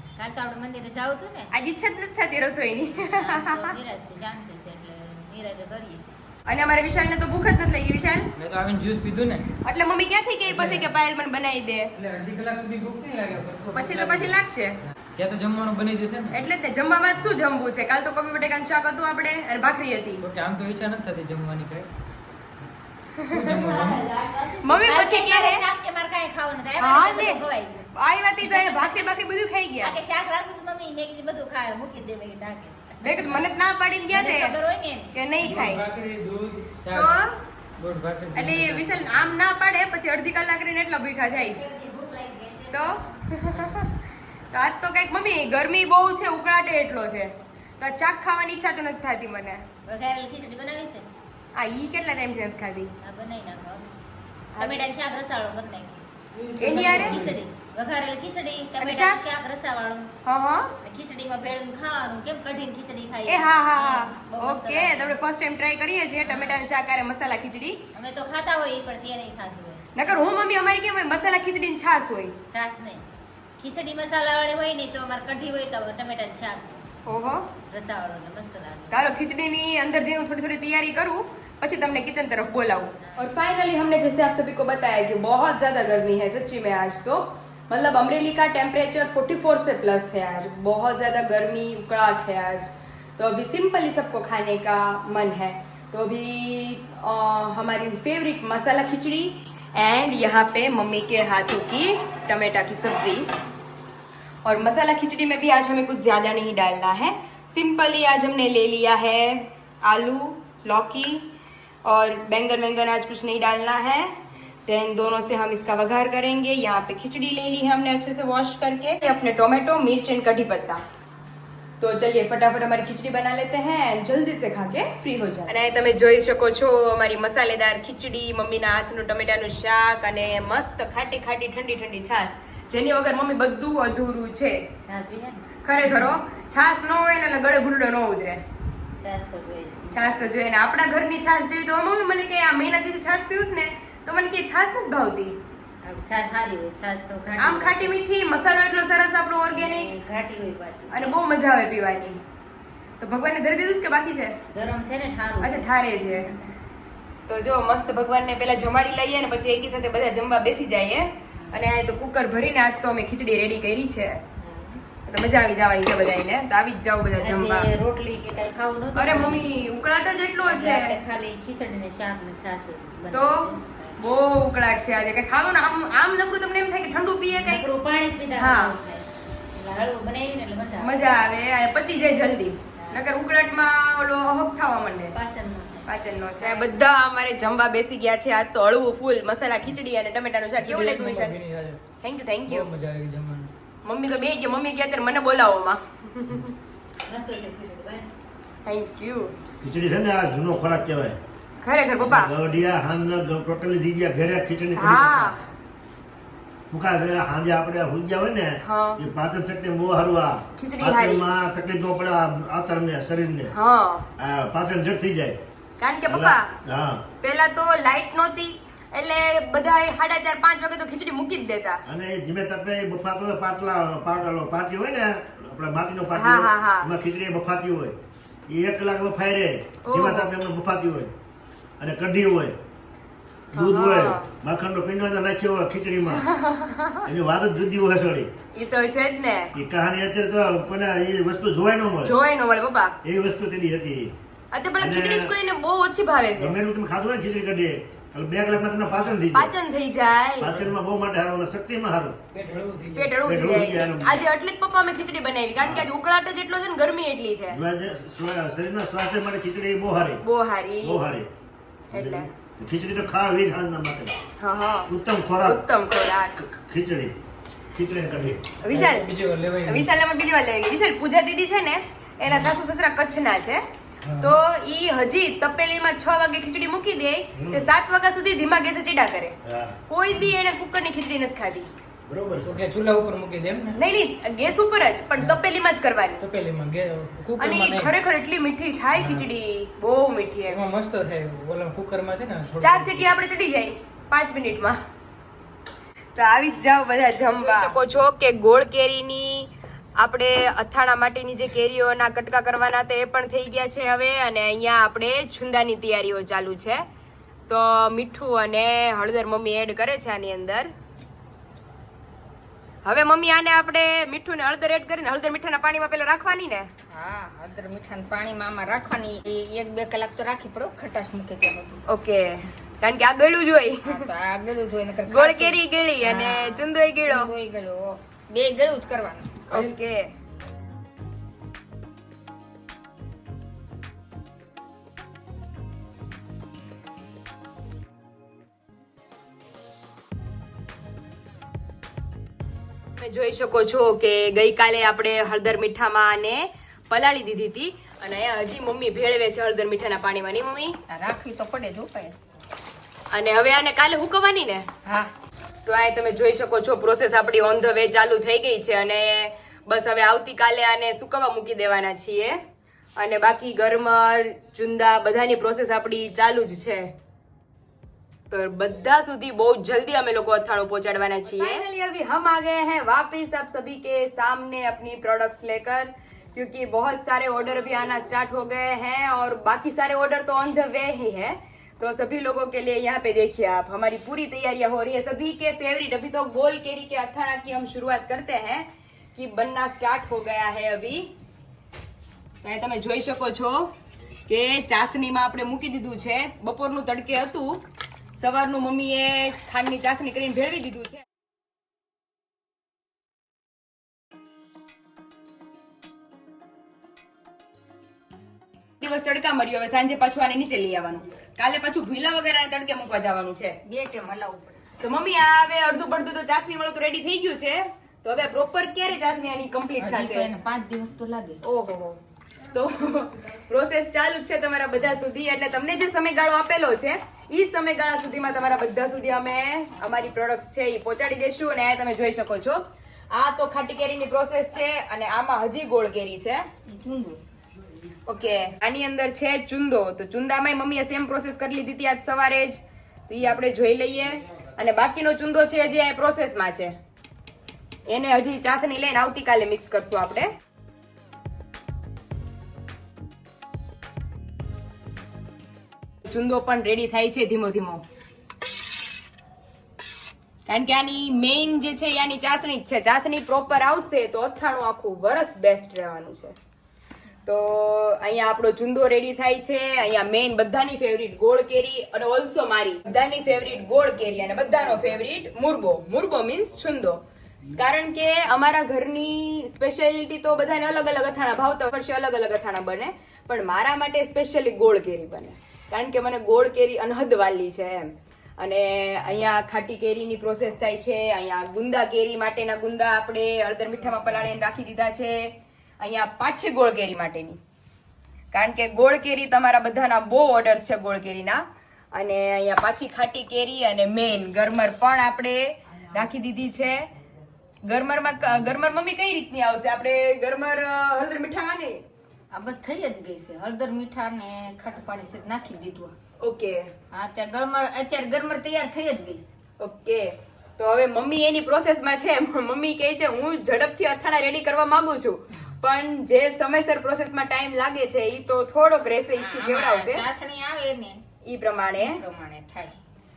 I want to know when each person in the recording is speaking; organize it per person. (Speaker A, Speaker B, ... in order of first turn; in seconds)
Speaker A: 0.2-1.5, 2.9-6.1, 23.3-27.9, 28.4-29.0, 29.8-33.5, 34.1-35.1, 41.4-43.2, 49.9-51.1, 53.0-53.9, 54.6-56.0, 56.6-60.1, 60.8-65.2, 66.2-66.6, 67.9-70.3, 72.5-73.0, 73.6-76.9, 77.7-79.0, 83.0-83.3, 134.8-136.1, 139.0-140.3, 145.8-148.0, 149.5-151.1, 154.5-155.7, 161.4-161.6, 164.4-164.8, 167.2-169.5, 170.4-174.0, 177.4-181.2, 182.8-183.1, 185.1-186.7, 197.1-198.1
Speaker B: 1.5-3.8, 6.5-8.3, 9.7-11.9, 13.7-14.8, 16.3-20.2, 23.2-23.7, 24.6-25.6, 26.8-27.4, 27.9-30.0, 33.0-34.5, 35.1-35.8, 36.9-37.4, 38.4-41.6, 42.7-43.9, 44.5-49.6, 51.5-52.9, 54.5-54.9, 56.6-57.2, 58.8-59.2, 60.2-60.7, 63.3-67.8, 70.0-72.4, 77.1-77.5, 78.9-103.3, 104.4-111.3, 111.8-120.8, 121.8-134.7, 135.6-138.4, 139.9-145.4, 147.4-149.9, 150.9-152.2, 153.0-154.4, 155.4-156.3, 157.3-164.2, 165.1-167.7, 169.0-170.9, 173.1-177.7, 178.3-178.8, 180.8-185.2, 185.9-191.3, 192.0-192.7, 193.8-196.6, 198.7-199.3, 201.6-202.3, 204.8-205.4, 208.6-209.0, 210.6-211.2, 213.5-214.1, 215.8-216.5, 217.2-221.8, 226.1-226.9, 229.9-230.3, 233.5-234.3, 236.1-237.1, 238.5-239.5, 242.0-243.0, 244.5-246.6, 249.3-250.7, 253.0-257.6, 260.2-261.0, 261.9-262.3, 264.4-266.4, 268.6-269.1, 269.7-273.6, 274.2-279.4, 279.9-281.7, 283.8-286.2, 287.4-290.6, 292.6-294.8, 296.1-306.9, 307.5-310.7, 312.8-316.7, 321.9-324.1, 325.1-327.3, 329.5-330.1, 343.0-350.8, 353.1-354.7, 355.6-362.4, 363.0-366.9, 368.3-391.1, 392.4-393.7, 394.3-397.6, 398.2-401.0, 408.8-413.6, 414.8-420.3, 422.5-436.5, 438.1-446.8, 447.9-450.3, 456.0-457.8, 460.5-466.4, 467.2-477.0, 477.5-497.4, 498.3-506.9, 507.7-511.8, 516.2-516.7, 519.6-530.1, 531.2-532.0
Speaker C: 8.4-9.5, 10.4-10.9, 11.9-14.4, 15.1-16.5, 17.1-17.4, 20.2-21.9, 23.3-24.0, 35.4-39.4, 43.5-43.8, 56.3-57.4, 190.6-191.8, 192.5-193.5, 252.3-253.2, 268.7-269.9, 272.3-272.6, 274.1-274.4, 282.4-283.9, 286.2-287.9, 289.0-289.3, 290.5-293.1
Speaker D: 199.6-201.2, 202.0-205.3, 206.7-213.5, 214.2-215.4, 216.0-217.1, 221.8-228.0, 228.5-231.1, 231.8-232.6, 233.5-236.3, 237.1-238.3, 239.5-242.2, 243.0-244.1, 244.8-245.3, 246.3-249.5, 250.4-252.2, 253.2-254.3, 255.6-255.9, 257.5-260.2, 260.8-261.3, 261.9-264.2, 264.9-265.6, 266.4-267.1, 267.7-268.4, 277.4-277.7, 279.4-279.8, 282.1-282.6
Speaker E: 297.5-297.7, 316.9-321.8, 323.9-329.6, 350.9-352.1, 354.9-355.1, 413.7-414.7, 419.8-422.0, 436.7-437.2, 512.3-515.9, 516.9-519.3, 529.2-531.0, 531.8-532.8